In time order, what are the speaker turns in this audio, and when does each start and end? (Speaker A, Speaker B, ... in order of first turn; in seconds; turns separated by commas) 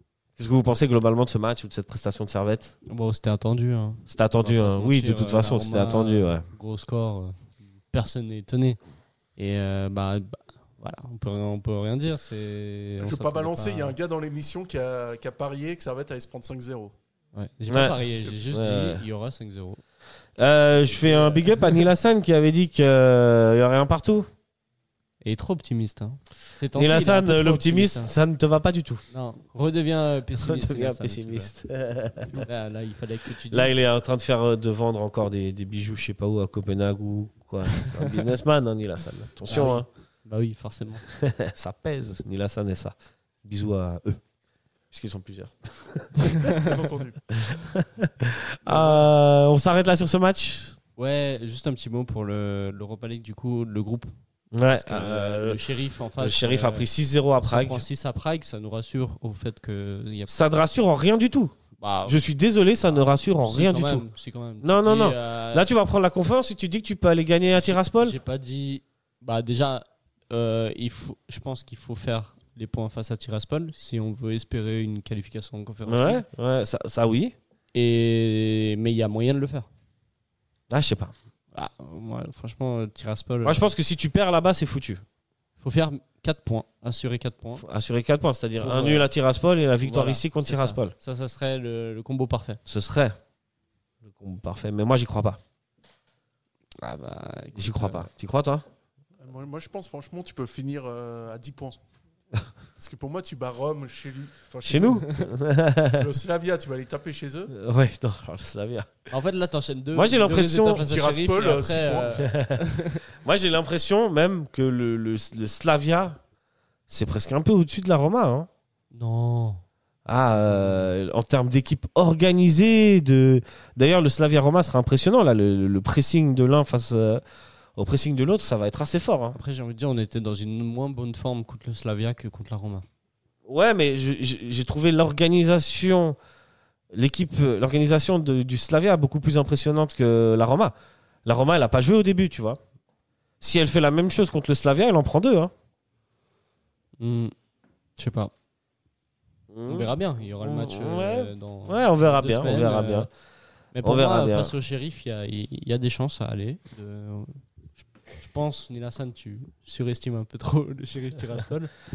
Speaker A: 0.4-2.8, Speaker B: 2.9-8.8, Speaker A: 4.1-6.5, Speaker B: 9.4-13.9, Speaker C: 13.0-16.9, Speaker B: 17.4-19.8, Speaker A: 17.7-19.1, Speaker A: 20.4-24.3, Speaker B: 20.8-21.8, Speaker B: 25.2-28.1, Speaker A: 26.8-29.0, Speaker B: 29.1-31.5, Speaker A: 30.3-32.5, Speaker B: 32.4-33.8, Speaker A: 33.5-39.9, Speaker B: 39.5-41.0, Speaker A: 41.1-44.2, Speaker A: 44.9-46.5, Speaker C: 46.6-47.2, Speaker A: 47.3-50.8, Speaker C: 48.7-49.1, Speaker B: 51.0-54.1, Speaker A: 54.5-55.6, Speaker B: 54.8-56.9, Speaker A: 56.2-57.8, Speaker B: 57.4-60.3, Speaker A: 60.3-64.0, Speaker B: 61.8-62.2, Speaker B: 62.9-65.7, Speaker A: 64.6-68.2, Speaker B: 67.5-76.2, Speaker A: 75.9-77.3, Speaker B: 77.7-79.7, Speaker A: 80.7-81.1, Speaker B: 81.5-83.7, Speaker A: 83.5-85.0, Speaker B: 85.6-87.7, Speaker A: 87.6-90.9, Speaker B: 88.6-89.1, Speaker B: 89.8-92.6, Speaker A: 92.7-93.2, Speaker A: 94.0-95.4, Speaker B: 96.8-98.1, Speaker A: 97.6-98.7, Speaker C: 99.2-101.8, Speaker C: 102.8-105.1, Speaker A: 104.6-106.1, Speaker C: 106.0-107.5, Speaker A: 107.5-109.1, Speaker B: 109.1-113.0, Speaker A: 109.9-110.9, Speaker C: 110.8-112.3, Speaker A: 112.1-112.7, Speaker A: 113.2-116.2, Speaker A: 116.9-118.5, Speaker B: 118.9-119.6, Speaker A: 120.1-127.2, Speaker B: 120.4-120.9, Speaker A: 127.8-129.4, Speaker B: 129.3-132.8, Speaker A: 133.5-136.2, Speaker A: 136.9-140.7, Speaker A: 141.2-142.6, Speaker A: 143.4-145.5, Speaker B: 147.0-147.3, Speaker B: 148.0-148.3, Speaker A: 149.5-153.1, Speaker B: 149.7-153.1, Speaker B: 153.7-157.4, Speaker A: 153.8-154.5, Speaker B: 158.2-161.7